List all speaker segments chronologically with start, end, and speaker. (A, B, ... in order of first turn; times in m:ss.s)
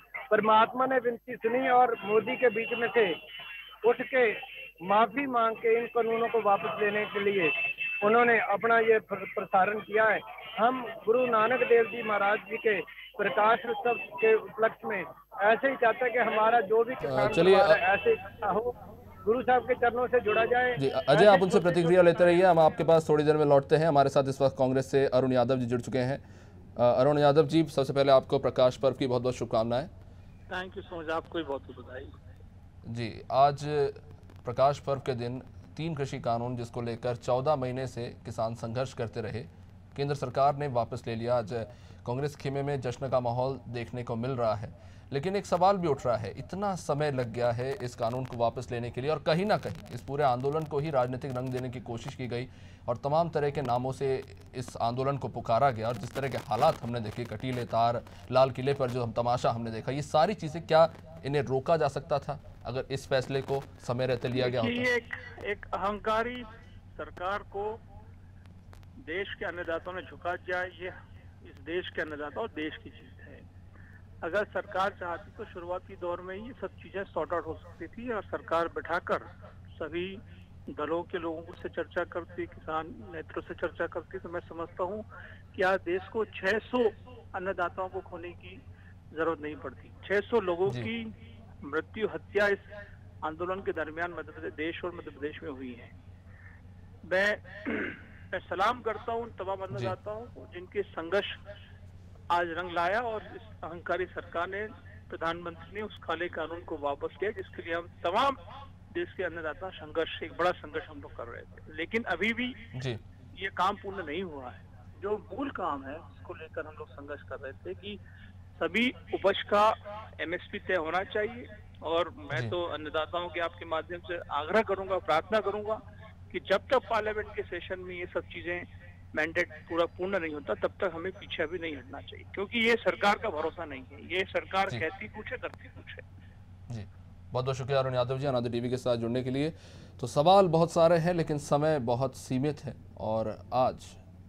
0:00.3-0:03.1 A
0:03.8-0:22.5 A
0:17.0-0:17.8 B
0:20.8-0:26.2 B
0:26.8-0:29.9 B
0:30.5-0:32.1 C
0:32.8-1:04.9 B
1:04.3-1:07.8 C
1:09.0-1:13.4 C
1:14.2-1:28.6 C
1:29.1-1:31.1 C
1:31.6-1:32.7 C
1:33.2-1:35.9 C
1:37.0-1:41.4 C
1:42.3-1:48.4 C
1:48.9-1:52.6 C
1:52.7-1:53.0 B
1:53.4-1:58.0 C
1:58.6-2:05.8 C
2:06.3-2:16.0 C
2:16.7-2:24.0 B